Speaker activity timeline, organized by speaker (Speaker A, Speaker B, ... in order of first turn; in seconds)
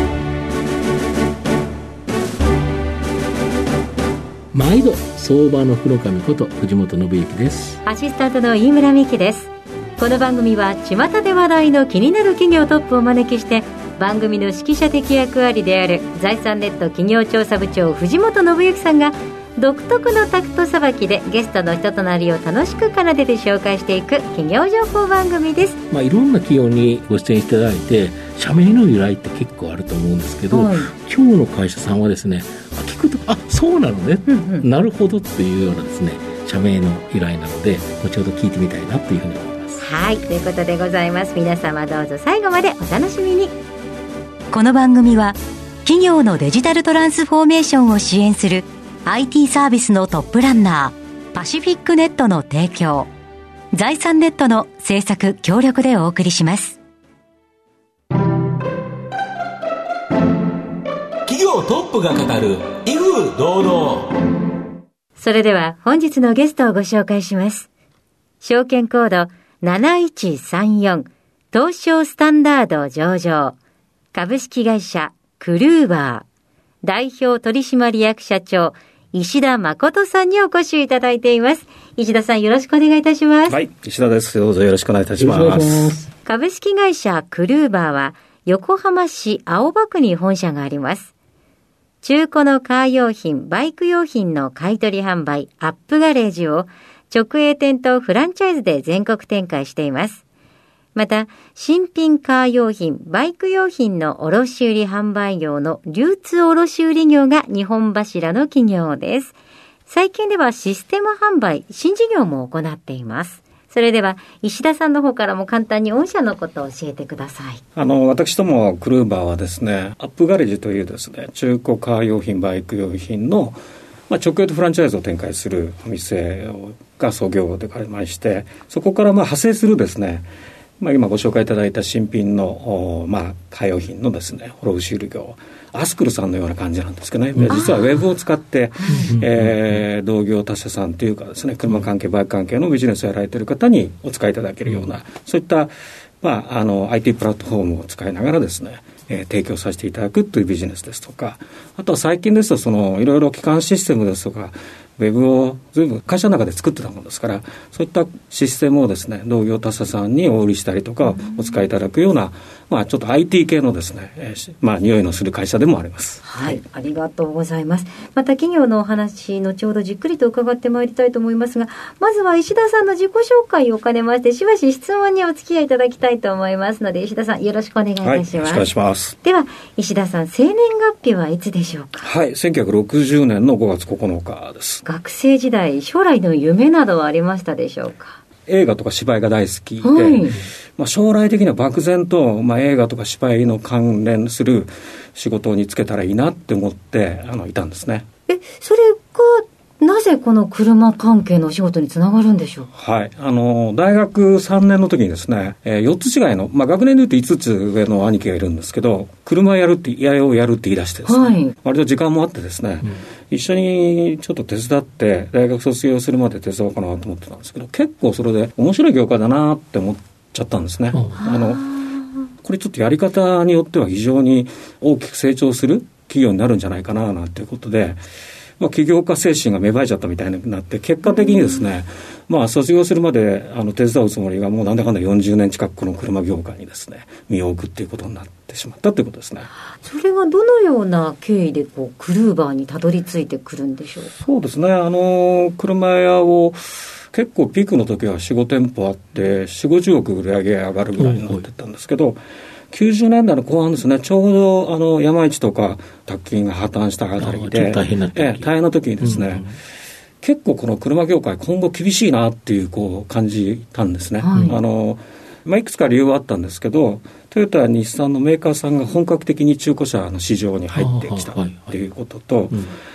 Speaker A: 4.5-7.8, 25.9-39.7, 85.2-86.1, 137.3-137.7, 138.9-139.8, 144.7-144.9, 220.9-221.2, 251.0-251.4, 257.2-258.5, 259.0-259.6, 270.7-271.8, 272.5-272.8
Speaker B: 7.8-25.8, 30.5-30.9, 34.2-34.7, 39.7-43.5, 44.5-53.1, 53.7-56.8, 65.2-67.7, 68.4-73.6, 74.1-76.2, 76.8-83.6, 86.2-91.1, 92.0-100.2, 100.9-117.6, 137.5-137.8, 138.8-139.1, 166.2-178.7, 179.2-182.1, 184.8-188.2, 189.8-190.3, 198.3-202.7, 211.1-211.5, 221.2-222.0, 239.7-244.1, 264.2-264.6
Speaker C: 61.3-64.1
Speaker D: 83.5-86.0, 117.8-123.6, 124.1-130.3, 130.8-166.6, 178.0-179.1, 182.0-184.8, 188.5-198.1, 202.7-221.6, 222.4-228.0, 228.6-239.5, 244.2-252.2, 252.7-259.4, 260.2-272.6